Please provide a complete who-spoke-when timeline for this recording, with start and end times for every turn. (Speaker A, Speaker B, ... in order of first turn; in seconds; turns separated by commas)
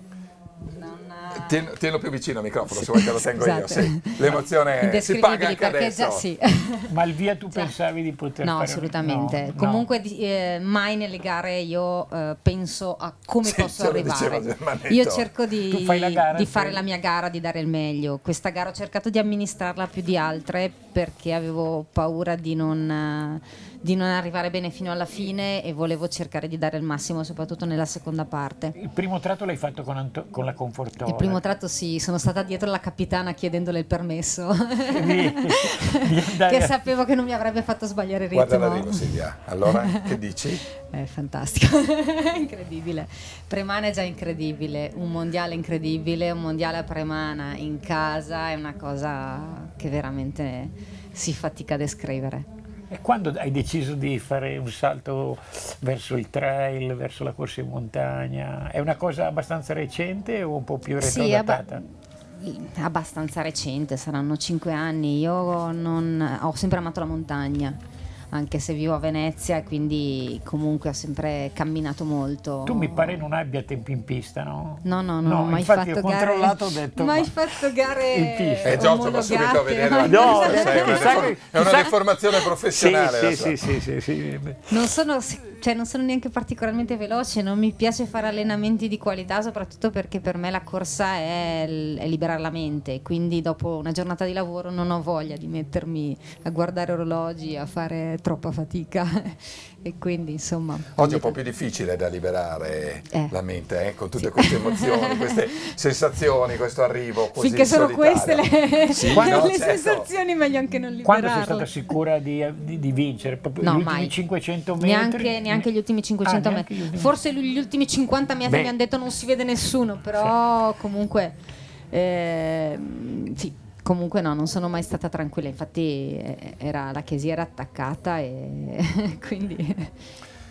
Speaker A: 0.7-1.6, Speaker B: 1.3-6.2, Speaker A: 2.7-6.9, Speaker C: 6.9-9.8, Speaker A: 8.4-28.7, Speaker B: 13.4-15.3, Speaker C: 15.7-16.8, Speaker C: 28.8-31.4, Speaker A: 31.1-52.5, Speaker C: 34.9-36.8, Speaker B: 38.3-40.6, Speaker C: 52.9-61.8, Speaker A: 61.0-61.8, Speaker A: 62.3-67.8, Speaker A: 68.3-73.2, Speaker C: 72.7-78.9, Speaker A: 74.8-81.8, Speaker B: 78.6-83.7, Speaker C: 80.0-81.9, Speaker C: 82.7-84.8, Speaker A: 84.7-101.3, Speaker B: 101.0-110.1, Speaker A: 104.2-105.7, Speaker A: 107.3-111.7, Speaker C: 109.1-109.5, Speaker C: 111.0-115.7, Speaker A: 113.6-114.1, Speaker A: 114.8-121.3, Speaker C: 116.2-117.1, Speaker C: 118.5-118.7, Speaker A: 121.9-129.9